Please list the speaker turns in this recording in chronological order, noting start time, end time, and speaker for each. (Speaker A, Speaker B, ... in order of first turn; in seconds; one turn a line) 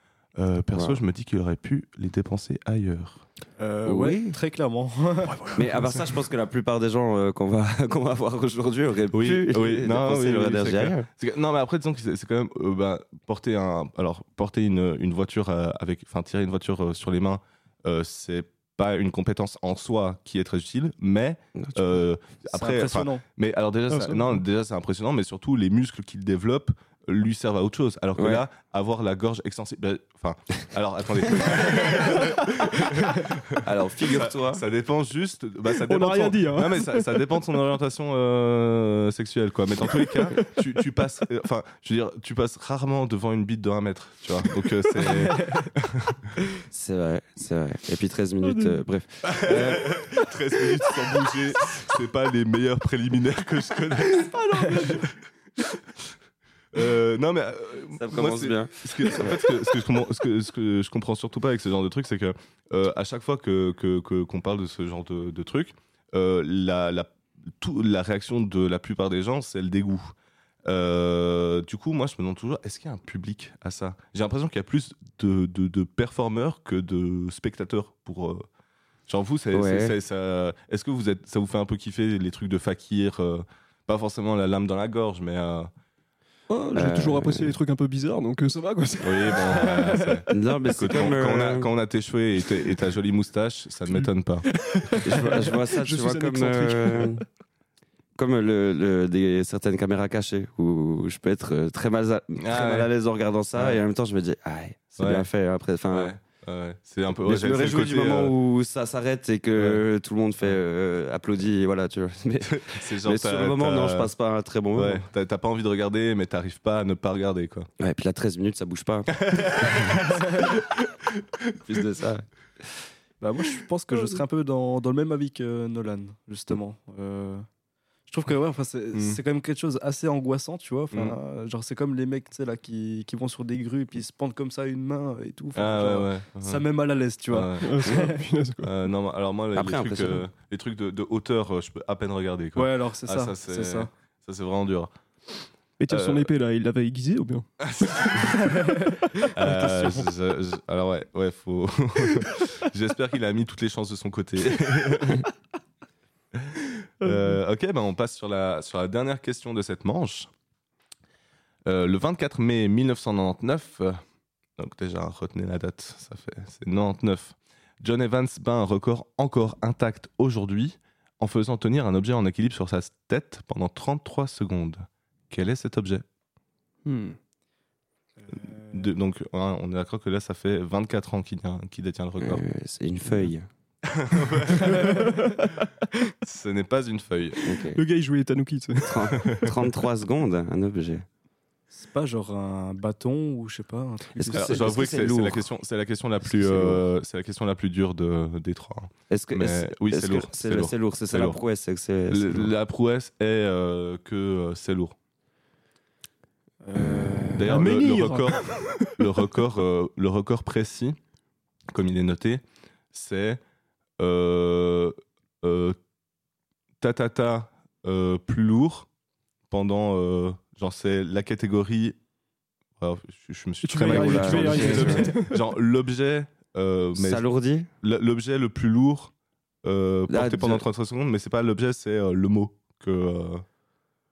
Speaker A: 0.4-3.2
Speaker B: 0.7-1.0
Speaker C: 3.6-5.4
Speaker B: 3.8-4.4
Speaker D: 5.2-6.2
Speaker B: 5.5-11.1
Speaker A: 9.1-46.3
Speaker B: 21.5-22.0
Speaker C: 22.5-23.2
Speaker D: 23.9-24.4
Speaker B: 28.1-28.4
Speaker B: 33.6-34.6
Speaker D: 35.9-37.3
Speaker D: 40.1-40.6
Speaker C: 45.3-45.7
Speaker B: 46.6-50.0
Speaker D: 48.4-48.8
Speaker A: 49.2-55.0
Speaker D: 54.1-55.1
Speaker A: 56.7-70.1
Speaker B: 57.9-59.5
Speaker A: 70.6-78.5
Speaker A: 79.1-85.7
Speaker B: 79.5-79.9
Speaker D: 86.5-89.9
Speaker B: 86.7-87.6
Speaker A: 89.0-94.5
Speaker B: 90.3-91.7
Speaker D: 93.9-97.2
Speaker B: 95.0-97.2
Speaker B: 98.2-106.1
Speaker A: 102.4-102.9
Speaker A: 103.5-103.8
Speaker A: 105.0-105.3
Speaker A: 105.9-108.3
Speaker B: 107.1-115.0
Speaker A: 109.5-109.8
Speaker A: 112.4-114.1
Speaker A: 114.7-117.7
Speaker B: 117.8-119.9
Speaker A: 119.2-121.8
Speaker B: 121.6-122.2
Speaker C: 123.2-127.5
Speaker C: 128.1-138.2
Speaker A: 128.9-129.2
Speaker A: 130.9-131.2
Speaker A: 135.5-136.7
Speaker A: 137.3-137.8
Speaker D: 137.6-138.7
Speaker A: 138.6-144.9
Speaker B: 139.5-140.2
Speaker C: 142.6-143.9
Speaker D: 145.8-147.5
Speaker A: 145.9-146.3
Speaker A: 147.6-148.5
Speaker A: 149.3-155.3
Speaker D: 149.4-150.1
Speaker A: 156.3-160.3
Speaker D: 157.0-157.4
Speaker A: 161.7-164.0
Speaker A: 164.6-176.0
Speaker D: 176.8-177.2
Speaker C: 178.3-178.8
Speaker A: 178.3-182.4
Speaker B: 182.2-183.5
Speaker A: 183.8-185.0
Speaker D: 184.7-185.5
Speaker A: 186.2-187.4
Speaker B: 187.4-187.8
Speaker D: 187.7-189.5
Speaker B: 188.8-191.1
Speaker A: 189.2-189.5
Speaker C: 191.7-194.6
Speaker B: 194.1-195.5
Speaker A: 194.3-201.4
Speaker B: 196.2-196.8
Speaker B: 199.1-202.5
Speaker A: 202.1-204.9
Speaker C: 206.6-207.5
Speaker B: 206.7-207.6
Speaker A: 207.3-211.0
Speaker D: 207.5-209.1
Speaker A: 211.7-213.4
Speaker A: 214.0-215.8
Speaker A: 216.8-218.9
Speaker A: 219.5-222.0
Speaker A: 222.8-227.2
Speaker D: 223.6-225.4
Speaker B: 223.8-225.1
Speaker B: 226.9-227.7
Speaker A: 227.8-229.1
Speaker A: 229.6-233.4
Speaker B: 230.1-230.7